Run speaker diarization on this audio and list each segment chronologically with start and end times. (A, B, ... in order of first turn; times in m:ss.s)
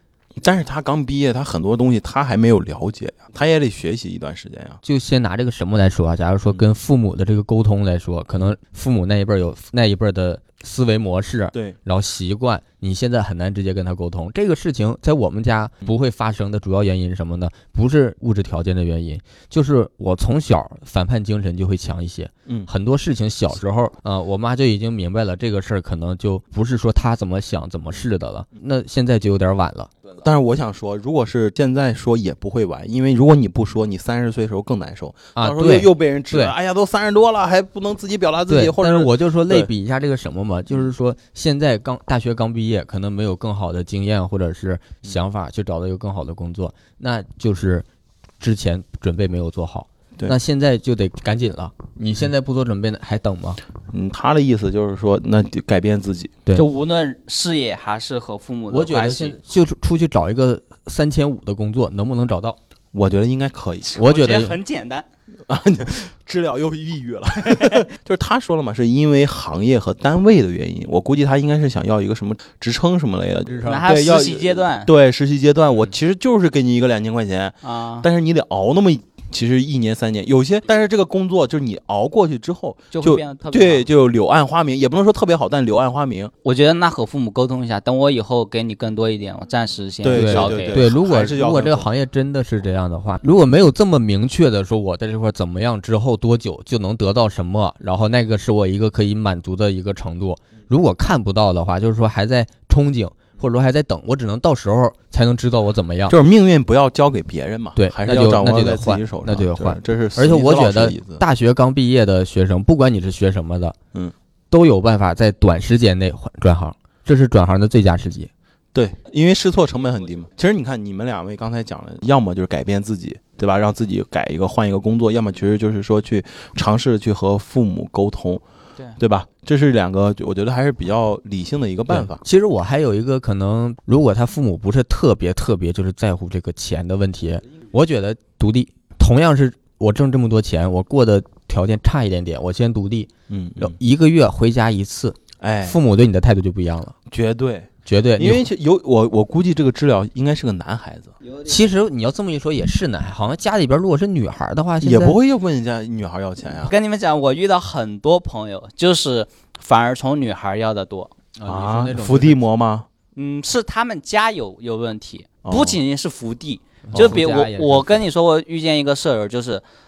0:00.4-0:04.8 A
0:04.8-0:29.9 B
0:30.2-0:39.7 A
0:35.4-0:36.5 B
0:38.5-0:47.8 B
0:48.4-0:53.6 B
0:53.9-0:56.3 A
0:56.5-0:59.4 C
0:58.7-1:02.6 B
1:02.9-1:04.0 A
1:03.9-1:05.0 C
1:04.0-1:04.6 B
1:05.5-1:26.3 A
1:07.5-1:07.8 C
1:13.5-1:13.9 B
1:13.6-1:14.9 C
1:17.6-1:18.1 C
1:22.9-1:23.8 C
1:26.4-1:30.8 C
1:30.0-1:31.9 A
1:30.1-1:46.2 B
1:46.1-1:51.2 A
1:47.8-1:53.8 B
1:54.5-1:58.3 B
1:58.7-2:08.4 A
2:09.0-2:12.2 A
2:11.9-2:27.0 B
2:23.3-2:23.7 A
2:25.4-2:25.8 A
2:27.1-2:31.1 A
2:27.8-2:28.4 B
2:31.2-2:31.7 C
2:31.4-2:35.2 B
2:34.8-2:36.7 A
2:36.6-2:41.1 C
2:41.4-2:42.4 B
2:41.4-2:42.9 A
2:43.1-2:49.6 C
2:45.4-2:45.8 A
2:46.9-2:48.0 B
2:46.9-2:47.2 A